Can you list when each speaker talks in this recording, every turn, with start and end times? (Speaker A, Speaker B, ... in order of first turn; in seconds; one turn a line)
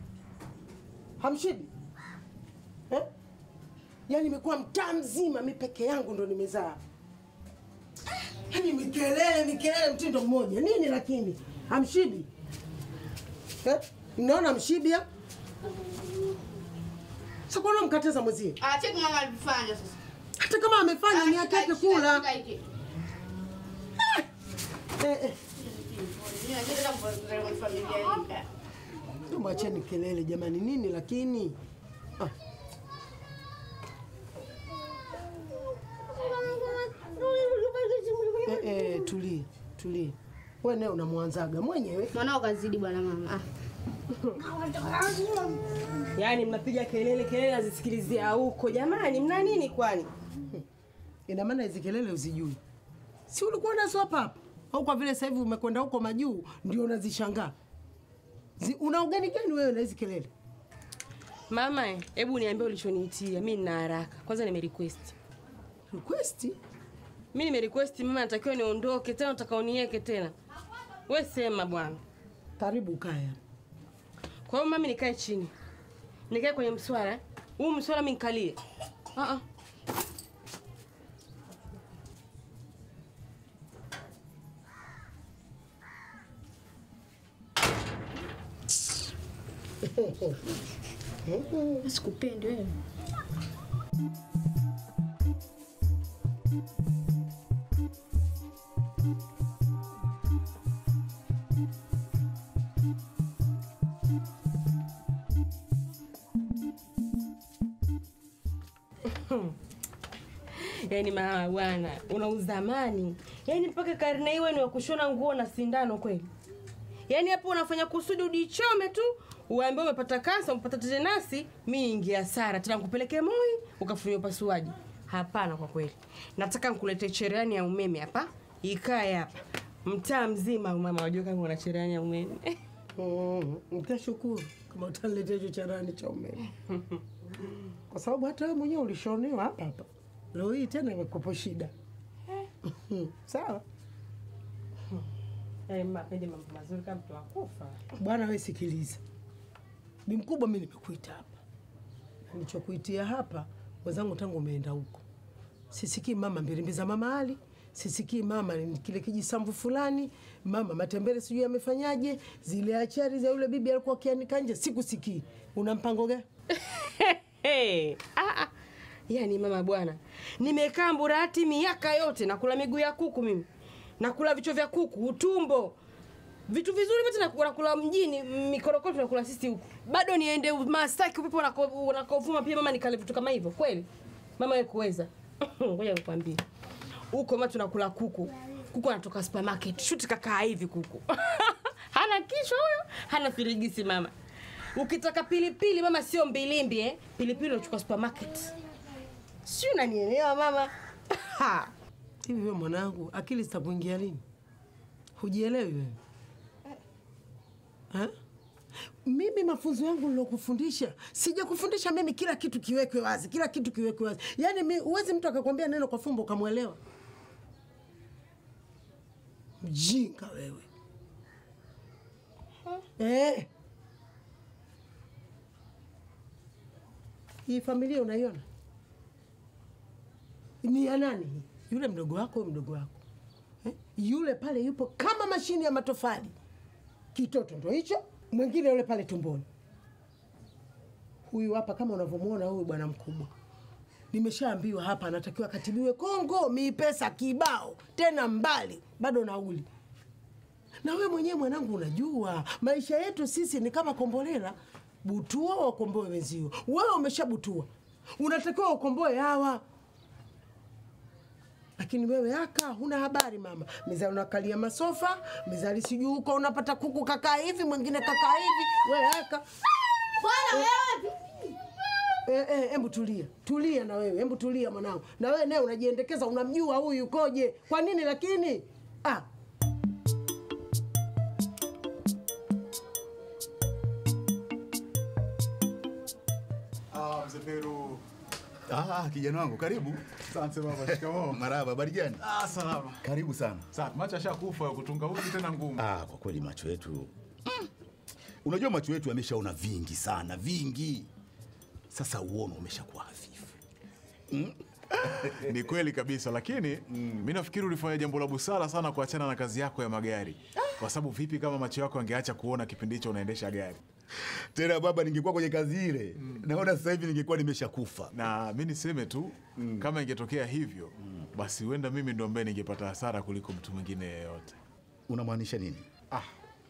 Speaker A: 1.2-1.7
Speaker A: 4.1-6.8
Speaker A: 8.5-12.3
Speaker A: 13.6-15.1
Speaker A: 17.5-18.6
Speaker B: 18.6-20.0
Speaker A: 20.4-22.3
Speaker B: 21.1-22.6
Speaker A: 25.0-25.4
Speaker B: 25.6-28.5
Speaker A: 29.3-31.6
Speaker C: 37.0-38.3
Speaker B: 37.0-38.2
Speaker A: 38.5-42.1
Speaker B: 42.1-43.4
Speaker C: 44.2-44.4
Speaker A: 44.8-45.4
Speaker C: 46.1-50.1
Speaker A: 51.3-52.6
Speaker A: 53.3-57.5
Speaker A: 58.6-60.3
Speaker C: 61.5-65.2
Speaker A: 65.9-66.6
Speaker C: 67.3-70.3
Speaker C: 71.1-72.0
Speaker A: 72.6-73.4
Speaker C: 74.5-75.5
Speaker C: 76.3-78.6
Speaker C: 79.2-79.4
Speaker A: 89.8-90.4
Speaker A: 91.2-91.8
Speaker B: 91.8-92.8
Speaker C: 109.0-109.6
Speaker C: 110.5-116.3
Speaker C: 117.1-132.6
Speaker A: 133.0-136.5
Speaker A: 137.9-141.7
Speaker A: 142.7-143.6
Speaker C: 145.7-147.8
Speaker A: 148.0-149.0
Speaker A: 150.1-151.4
Speaker A: 152.3-155.0
Speaker A: 155.7-166.3
Speaker C: 166.5-168.5
Speaker C: 169.1-173.5
Speaker C: 174.0-175.8
Speaker C: 176.5-186.4
Speaker C: 187.1-194.1
Speaker C: 194.8-198.6
Speaker C: 199.4-201.7
Speaker A: 202.2-204.2
Speaker A: 205.2-206.0
Speaker A: 209.1-216.8
Speaker A: 219.6-220.7
Speaker A: 223.0-223.5
Speaker A: 227.5-228.4
Speaker A: 230.6-233.0
Speaker A: 233.6-236.4
Speaker A: 237.1-239.5
Speaker A: 241.3-243.3
Speaker A: 244.1-249.7
Speaker A: 250.8-259.6
Speaker A: 261.8-269.5
Speaker B: 270.2-271.2
Speaker A: 272.2-279.3
Speaker D: 286.9-288.1
Speaker E: 288.7-290.2
Speaker D: 290.3-291.5
Speaker E: 290.7-292.2
Speaker D: 292.2-293.0
Speaker E: 293.0-293.7
Speaker D: 293.7-295.9
Speaker E: 295.8-297.7
Speaker E: 298.4-301.1
Speaker E: 301.9-303.6
Speaker E: 304.3-305.5
Speaker D: 305.0-313.8
Speaker E: 306.9-307.2
Speaker E: 314.1-318.1
Speaker D: 318.1-324.6
Speaker E: 319.6-319.9
Speaker E: 325.1-325.9